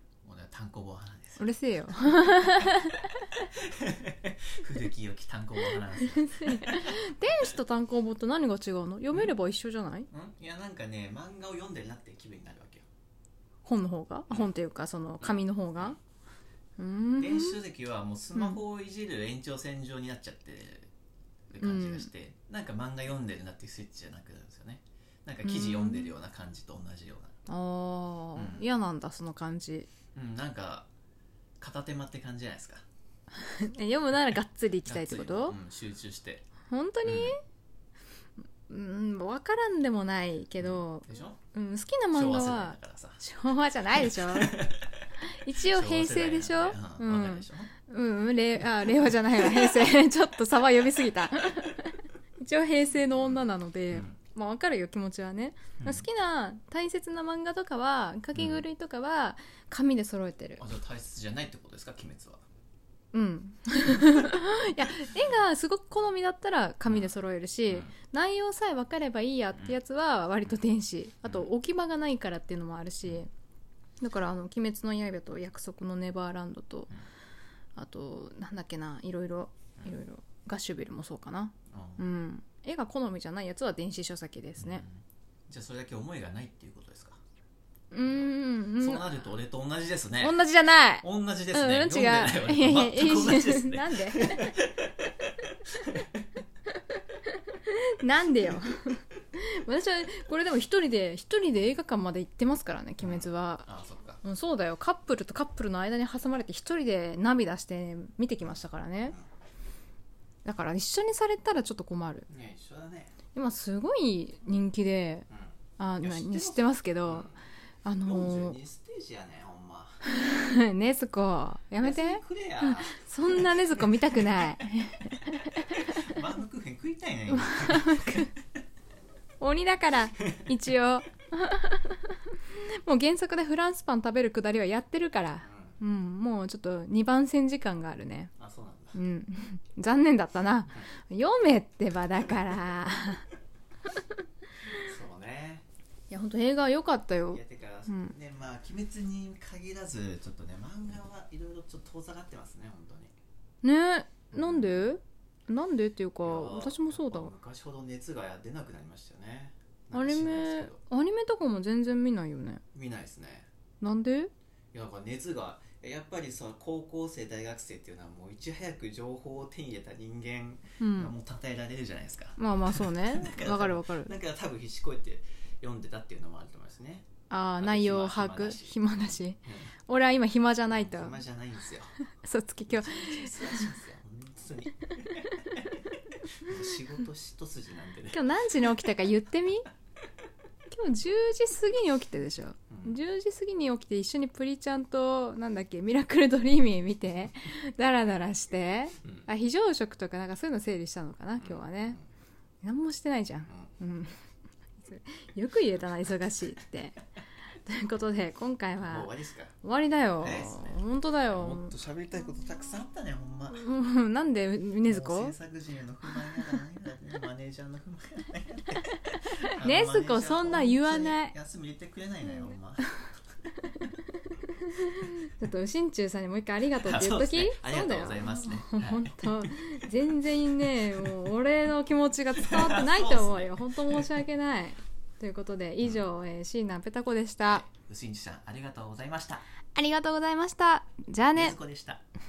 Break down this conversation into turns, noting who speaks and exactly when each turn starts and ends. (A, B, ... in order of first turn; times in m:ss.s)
0:00.2-0:01.5 A
0:01.4-0:03.5 B
0:03.5-0:07.1 A
0:06.3-0:10.1 B
0:10.1-0:12.9 A
0:13.6-0:16.0 B
0:15.2-0:16.0 A
0:16.8-0:17.6 B
0:17.2-0:20.9 A
0:18.4-0:18.6 B
0:21.5-0:27.4 A
0:21.6-0:22.1 B
0:25.4-0:26.1 B
0:27.5-0:29.9 B
0:28.4-0:28.7 A
0:30.2-0:30.9 A
0:31.6-0:32.8 A
0:33.3-0:35.6 B
0:34.8-0:36.4 A
0:36.7-0:37.4 B
0:37.0-0:37.4 A
0:38.7-0:44.7 B
0:40.6-0:41.4 A
0:42.1-0:43.2 A
0:44.0-0:45.0 A
0:45.3-1:00.6 B
0:45.6-0:47.7 A
0:49.0-0:49.9 A
0:53.9-0:54.2 A
0:55.8-0:56.1 A
0:58.4-0:58.6 A
1:00.6-1:02.4 A
1:03.1-1:13.3 B
1:07.7-1:07.9 A
1:14.0-1:16.9 B
1:17.8-1:24.8 B
1:21.7-1:22.0 A
1:24.6-1:27.2 A
1:27.9-1:29.2 B
1:28.0-1:30.4 A
1:30.2-1:34.5 B
1:31.0-1:36.2 A
1:36.7-1:43.7 B
1:43.0-1:44.2 A
1:44.2-1:49.2 B
1:50.4-1:52.3 B
1:52.3-1:53.2 A
1:53.3-1:55.3 B
1:55.3-1:57.4 A
1:55.8-1:57.3 B
1:57.8-1:58.6 B
1:58.0-2:00.1 A
2:00.1-2:05.8 B
2:01.8-2:04.2 A
2:05.6-2:08.4 A
2:07.3-2:08.3 B
2:09.4-2:18.3 B
2:15.4-2:15.8 A
2:18.4-2:19.0 A
2:18.9-2:23.3 B
2:24.7-2:25.6 A
2:26.1-2:28.2 B
2:27.3-2:33.1 A
2:33.6-2:37.3 B
2:34.3-2:34.9 A
2:36.2-2:40.8 A
2:39.9-2:42.6 B
2:42.7-2:43.5 A
2:43.8-2:44.3 B
2:44.7-2:59.7 A
2:50.8-2:51.1 B
2:52.4-2:54.1 B
2:57.3-3:01.2 B
3:00.7-3:02.0 A
3:02.2-3:03.7 B
3:02.7-3:08.3 A
3:08.1-3:09.7 B
3:10.7-3:22.0 B
3:12.7-3:13.0 A
3:21.4-3:22.0 A
3:22.6-3:24.2 B
3:24.8-3:27.0 B
3:27.6-3:29.1 B
3:28.8-3:29.6 A
3:29.6-3:31.7 B
3:30.2-3:30.8 A
3:31.3-3:33.7 A
3:33.5-3:35.4 B
3:34.8-3:43.0 A
3:39.6-3:41.3 B
3:42.2-3:42.6 B
3:43.6-3:57.6 B
3:46.8-3:49.9 A
3:50.8-3:51.2 A
3:52.4-3:54.2 A
3:57.5-3:59.4 A
3:59.8-4:01.6 B
4:01.3-4:02.0 A